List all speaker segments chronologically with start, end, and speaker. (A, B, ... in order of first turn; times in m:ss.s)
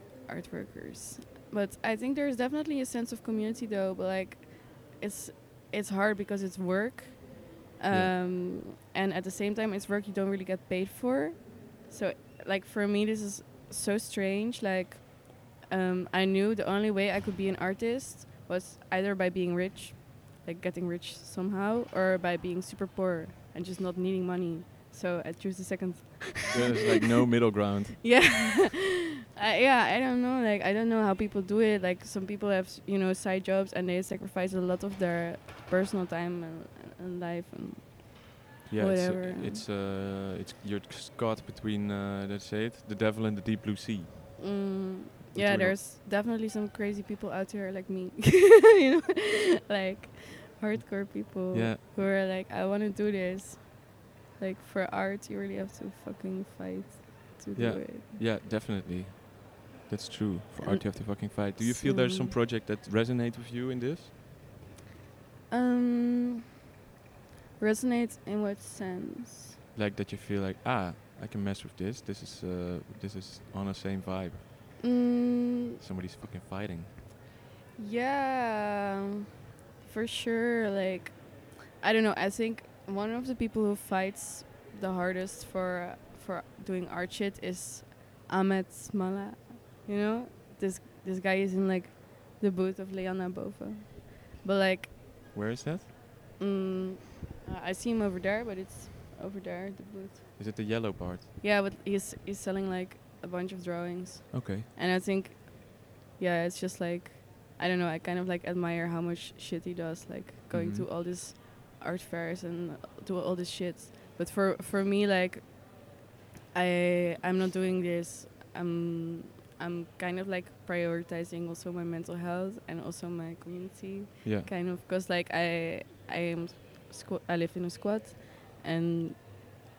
0:00.3-0:26.9 A
0:26.5-0:28.0 B
0:27.6-0:39.6 A
0:38.7-0:44.4 B
0:44.4-0:58.1 A
0:45.4-0:45.8 B
0:51.0-0:51.8 B
0:57.6-1:04.1 B
1:00.6-1:02.4 A
1:05.5-1:06.4 A
1:07.6-1:09.6 A
1:09.8-1:14.4 B
1:14.8-1:15.8 A
1:15.8-1:16.9 B
1:17.8-1:19.2 A
1:19.8-1:35.0 A
1:35.3-1:35.9 B
1:36.4-1:40.3 A
1:40.4-1:41.3 B
1:41.4-1:56.0 A
1:44.3-1:44.7 B
1:50.5-1:50.9 B
1:56.5-2:09.6 A
2:04.2-2:04.5 B